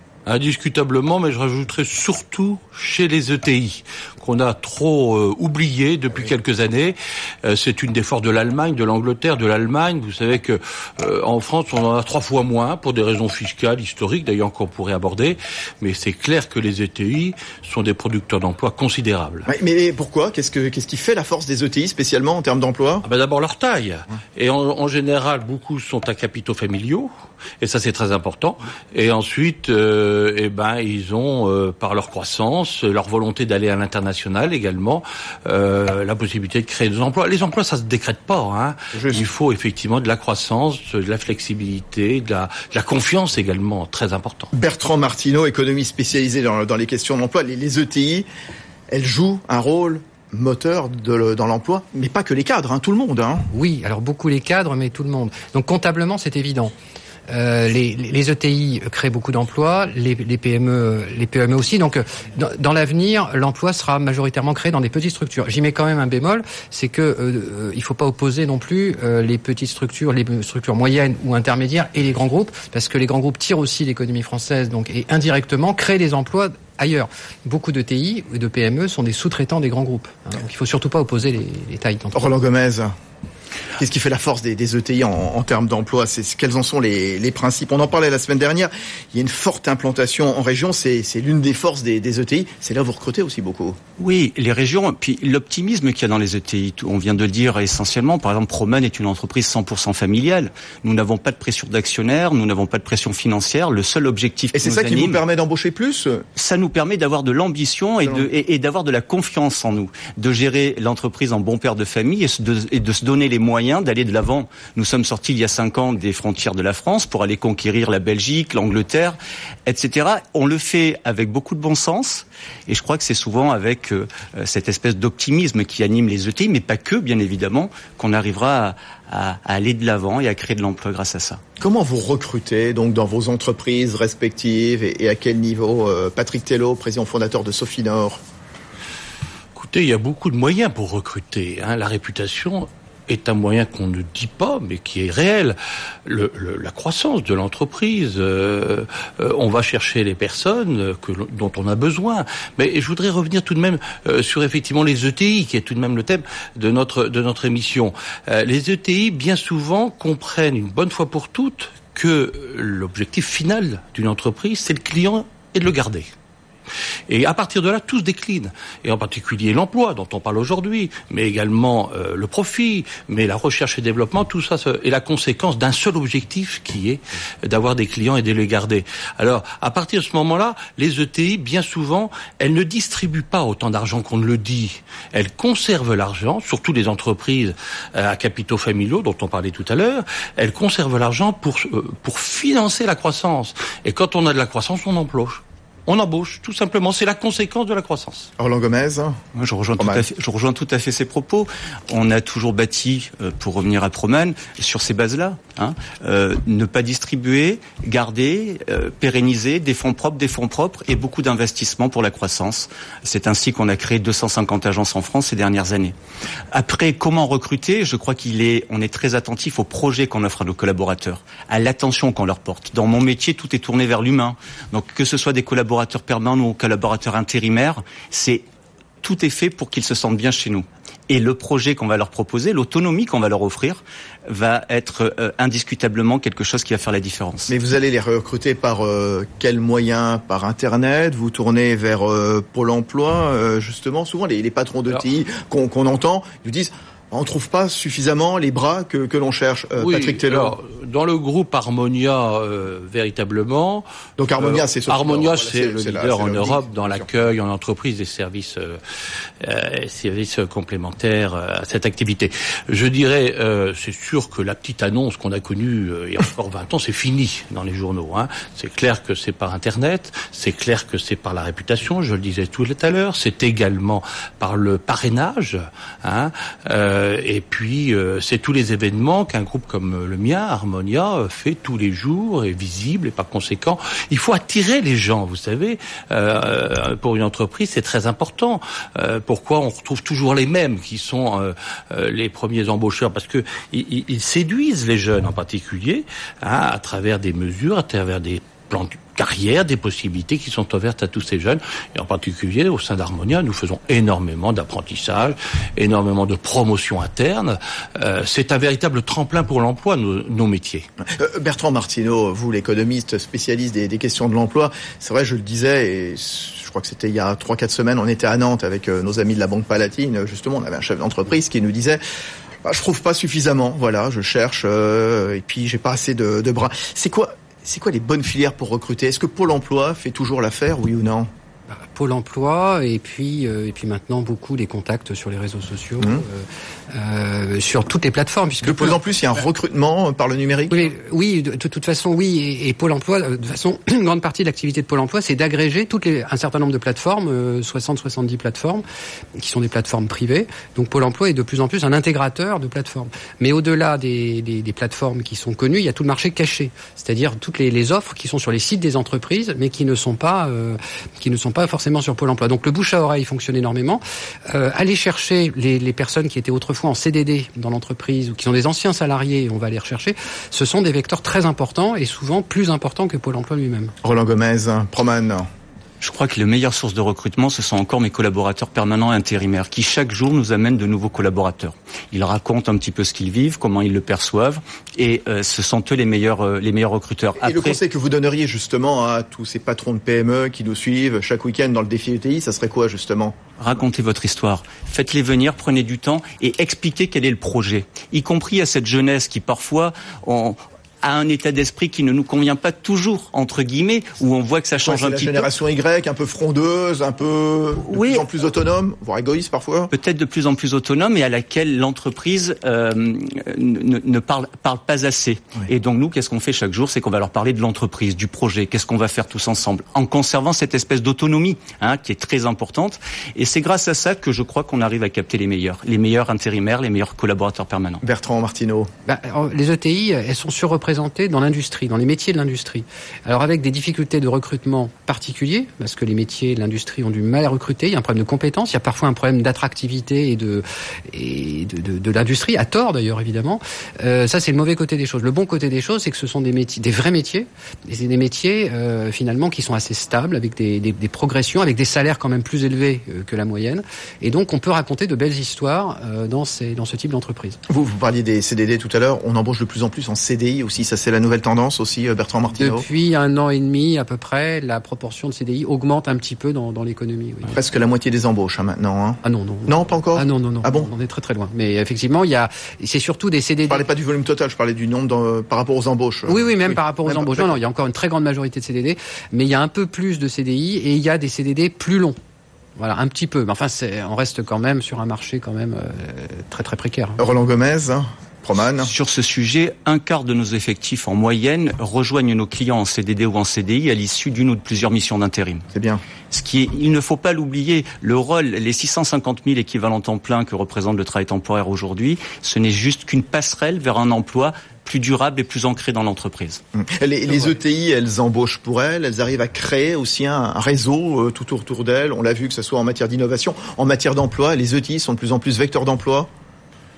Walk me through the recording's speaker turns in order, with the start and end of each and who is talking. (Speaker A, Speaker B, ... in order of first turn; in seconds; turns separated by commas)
Speaker A: 0.2-19.5, Speaker B: 19.5-23.0, Speaker A: 23.0-27.1, Speaker A: 27.6-44.5, Speaker B: 38.9-39.3, Speaker B: 44.5-48.3, Speaker B: 48.9-53.5, Speaker C: 53.5-56.7, Speaker C: 57.3-82.2, Speaker B: 82.1-82.9, Speaker B: 83.8-93.8, Speaker D: 94.0-105.2, Speaker B: 104.5-106.2, Speaker D: 106.3-131.4, Speaker B: 131.6-138.2, Speaker A: 139.5-166.1, Speaker A: 167.1-198.3, Speaker B: 198.4-199.2, Speaker D: 199.3-215.9, Speaker B: 199.8-200.0, Speaker D: 216.5-228.4, Speaker D: 229.0-237.5, Speaker B: 237.5-250.6, Speaker A: 249.8-253.8, Speaker B: 254.2-257.1, Speaker A: 254.4-258.8, Speaker A: 259.4-310.9, Speaker B: 311.1-322.0, Speaker B: 322.6-331.3, Speaker C: 331.7-339.0, Speaker B: 336.0-336.2, Speaker B: 338.6-340.9, Speaker C: 340.7-348.8, Speaker C: 349.4-373.9, Speaker B: 374.0-375.5, Speaker D: 376.0-387.8, Speaker B: 387.4-393.4, Speaker D: 393.6-405.5, Speaker B: 404.8-409.9, Speaker D: 407.9-408.2, Speaker D: 409.9-428.0, Speaker B: 428.0-428.9, Speaker C: 429.1-457.6, Speaker B: 457.7-462.9, Speaker C: 462.6-467.5, Speaker B: 467.5-470.9, Speaker C: 469.2-473.9, Speaker B: 473.7-477.5, Speaker C: 476.3-482.2, Speaker C: 482.8-487.2, Speaker B: 487.2-488.9, Speaker D: 488.7-495.6, Speaker B: 495.7-496.0, Speaker D: 496.3-506.6, Speaker B: 506.7-516.3